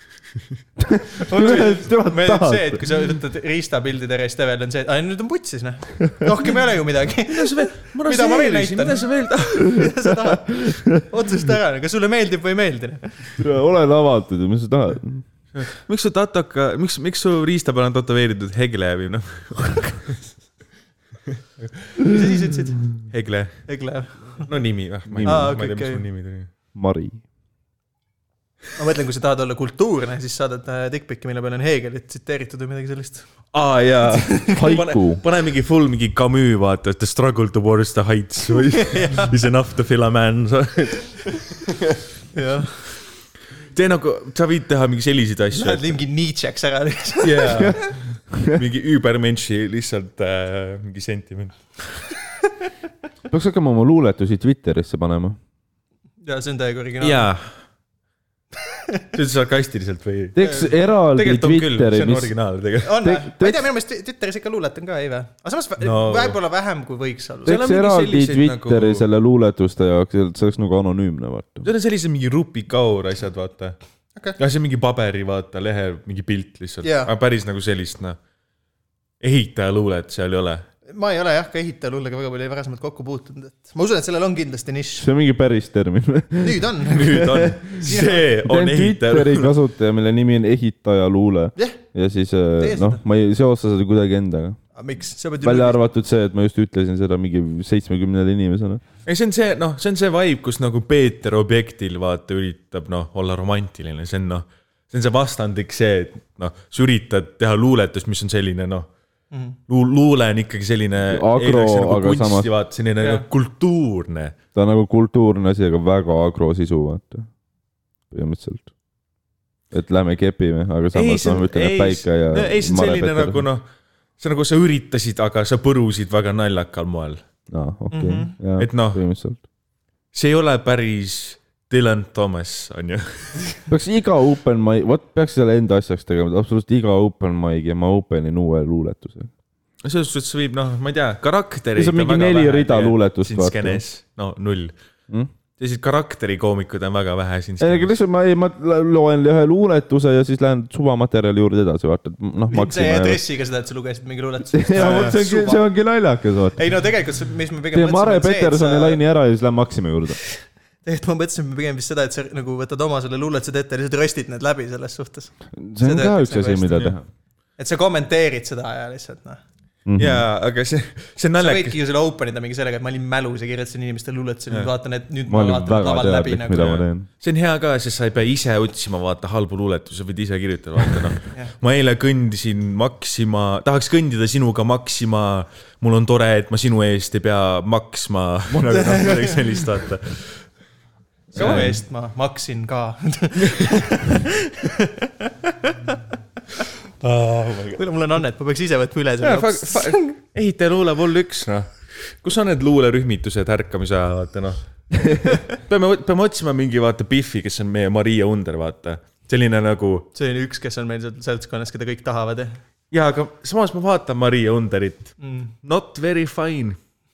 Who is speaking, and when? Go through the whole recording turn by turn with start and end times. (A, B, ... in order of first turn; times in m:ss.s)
0:00.8-0:02.8 A
0:01.2-0:13.3 B
0:07.3-0:09.8 C
0:13.4-0:15.2 A
0:15.5-0:20.2 C
0:22.0-0:22.9 B
0:23.1-0:23.7 C
0:23.7-0:24.5 B
0:24.3-0:26.5 C
0:25.1-0:25.5 A
0:25.2-0:26.0 B
0:26.7-0:27.2 A
0:28.8-0:33.3 B
0:33.5-0:42.0 C
0:34.1-0:34.7 B
0:34.5-0:35.2 A
0:38.8-0:39.3 B
0:42.3-0:42.8 B
0:43.7-0:45.9 C
0:45.5-0:47.9 B
0:47.2-0:52.1 C
0:48.3-0:48.6 A
0:53.3-0:55.4 A
0:56.2-0:57.3 B
0:57.0-0:57.5 C
0:59.1-1:03.0 C
1:00.3-1:02.3 A
1:00.4-1:00.7 B
1:02.8-1:07.6 B
1:03.0-1:03.7 A
1:05.8-1:06.4 C
1:07.4-1:11.7 A
1:07.4-1:09.0 C
1:11.6-1:13.8 C
1:14.4-1:18.2 C
1:16.8-1:17.1 B
1:19.2-1:20.6 C
1:20.9-1:25.1 B
1:25.0-1:27.6 A
1:26.4-1:28.2 B
1:26.9-1:29.5 C
1:28.4-1:34.6 A
1:32.6-1:33.0 B
1:34.7-1:35.8 B
1:35.4-1:38.8 A
1:39.0-1:48.9 C
1:49.3-1:49.6 B
1:49.7-1:54.4 C
1:51.0-1:52.5 A
1:54.5-1:57.3 A
1:58.1-1:58.7 A
1:59.7-2:03.4 A
2:00.9-2:03.6 C
2:04.2-2:07.2 C
2:07.5-2:09.4 A
2:07.9-2:08.4 B
2:08.6-2:09.0 C
2:10.1-2:13.6 C
2:13.7-2:19.3 A
2:19.8-2:24.7 C
2:21.8-2:23.8 A
2:25.6-2:27.9 C
2:27.6-2:33.2 A
2:32.5-2:35.7 B
2:34.5-2:36.6 A
2:34.8-2:35.2 C
2:36.6-2:39.0 B
2:37.7-2:40.2 A
2:40.2-2:46.8 B
2:45.6-2:47.1 A
2:46.7-2:46.9 C
2:47.6-2:49.4 B
2:49.8-2:50.2 A
2:50.0-2:51.8 C
2:51.4-2:56.7 B
2:55.3-2:57.1 A
2:56.5-3:10.4 C
3:08.7-3:09.4 B
3:11.3-3:16.0 B
3:11.3-3:11.8 C
3:17.0-3:17.8 C
3:17.8-3:20.2 B
3:19.2-3:24.6 C
3:25.5-3:30.1 C
3:30.1-3:32.6 B
3:32.9-3:36.8 C
3:35.2-3:35.5 B